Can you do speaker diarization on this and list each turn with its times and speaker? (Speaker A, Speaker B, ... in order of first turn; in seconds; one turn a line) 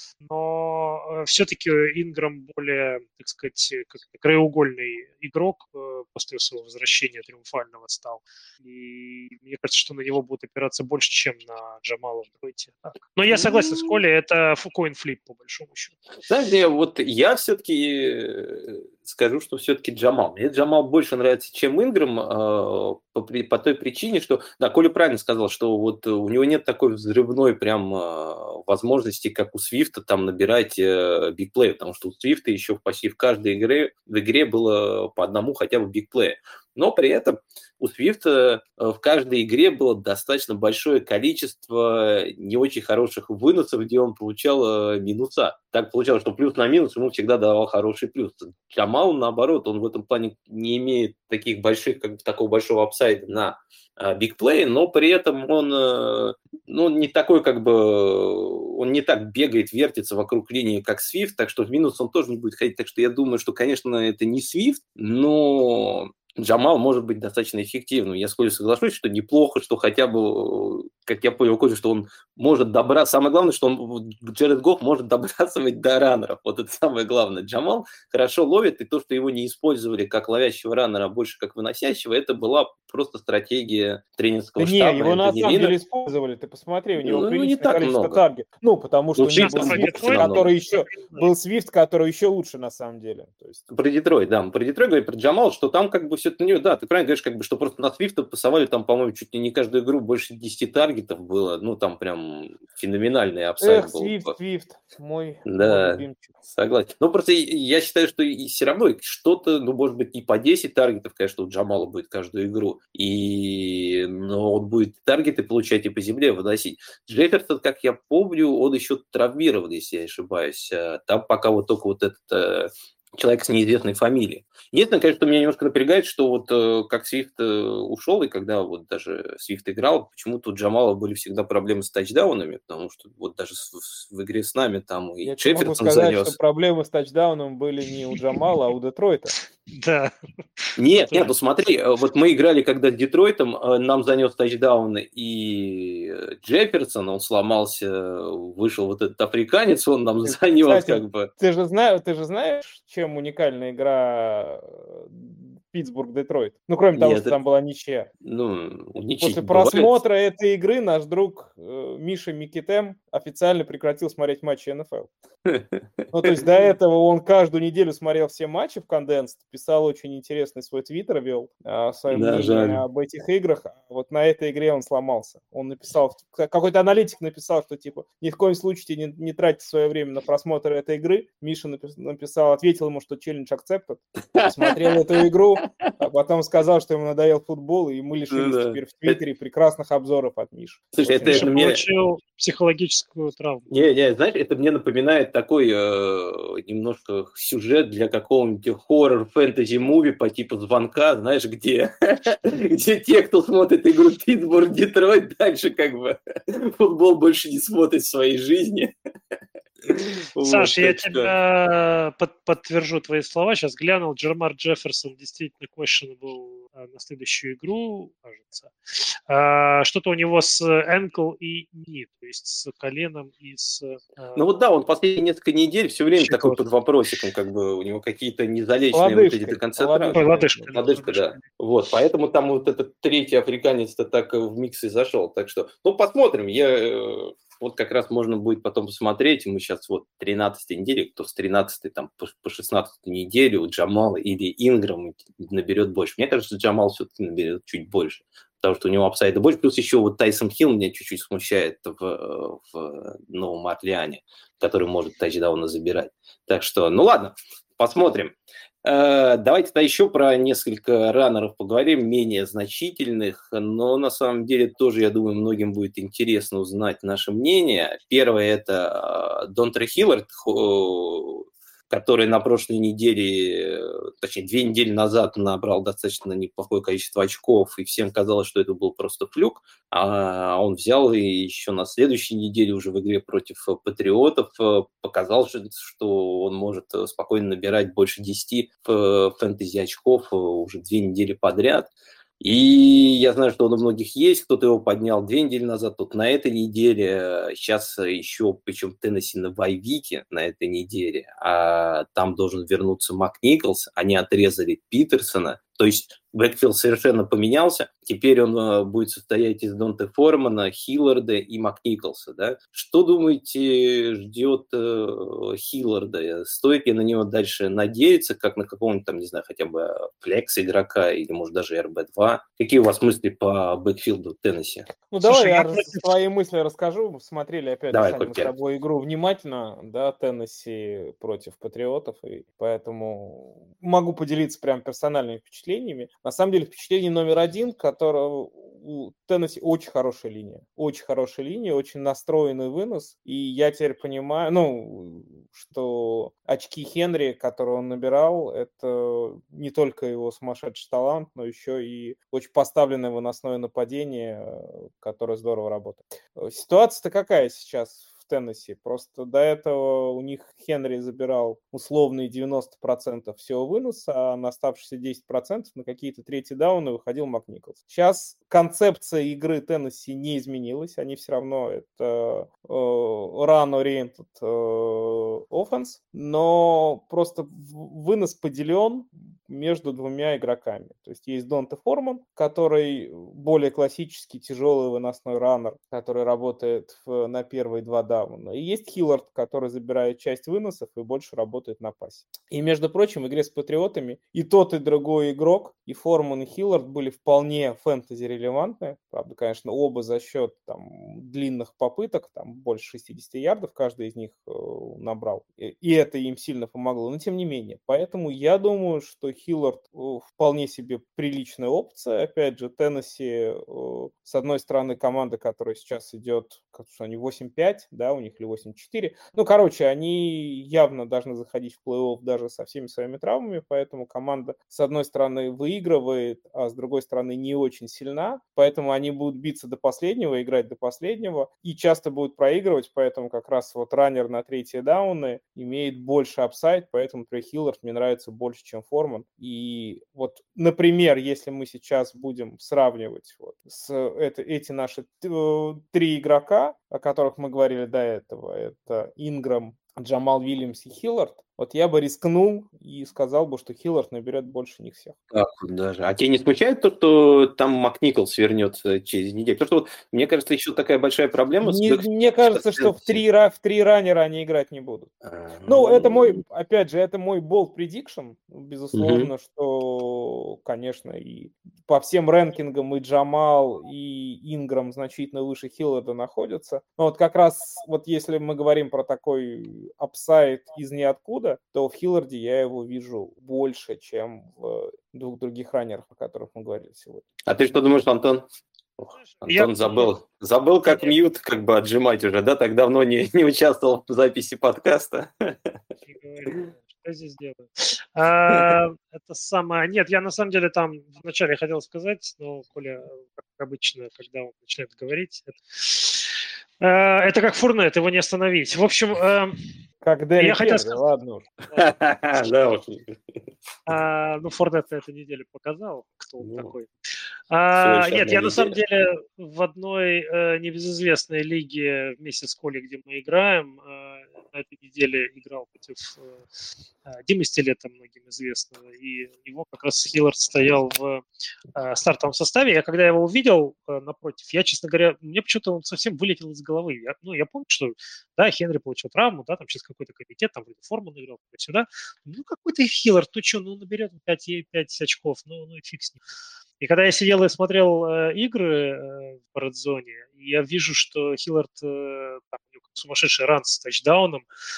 Speaker A: 0.2-16.0
Speaker B: 13.3-14.0
Speaker B: 16.3-85.8
Speaker C: 84.6-93.6
Speaker B: 87.0-88.2
Speaker B: 89.2-90.5
Speaker A: 89.4-91.3
Speaker B: 93.7-104.4
Speaker C: 103.6-106.3
Speaker B: 105.5-136.4
Speaker C: 135.2-139.3
Speaker A: 139.7-141.3
Speaker B: 140.8-151.3
Speaker C: 150.2-158.1
Speaker B: 156.9-157.4
Speaker B: 158.2-160.0
Speaker C: 159.2-165.1
Speaker B: 165.5-165.8
Speaker C: 166.1-191.5
Speaker B: 172.1-172.8
Speaker B: 184.3-185.0
Speaker B: 188.3-189.2
Speaker B: 190.9-191.8
Speaker A: 191.3-193.7
Speaker B: 193.7-208.9
Speaker B: 209.8-211.3
Speaker A: 210.4-224.4
Speaker B: 224.4-324.9
Speaker A: 226.2-226.6
Speaker C: 228.9-230.8
Speaker A: 230.1-231.4
Speaker C: 325.1-455.2
Speaker A: 325.2-326.1
Speaker B: 327.9-328.5
Speaker B: 455.3-463.2
Speaker C: 461.6-465.1
Speaker B: 465.2-466.4
Speaker C: 465.7-487.3
Speaker B: 468.9-469.3
Speaker B: 487.5-488.4
Speaker B: 489.0-495.8
Speaker A: 489.1-490.1
Speaker A: 490.9-491.2
Speaker A: 496.0-509.7
Speaker B: 498.5-498.8
Speaker C: 510.0-511.4
Speaker A: 510.4-511.0
Speaker B: 511.7-513.2
Speaker A: 513.9-516.9
Speaker B: 516.4-516.7
Speaker A: 517.5-526.4
Speaker B: 517.7-518.8
Speaker A: 527.1-531.2
Speaker A: 531.8-546.2
Speaker A: 546.8-554.5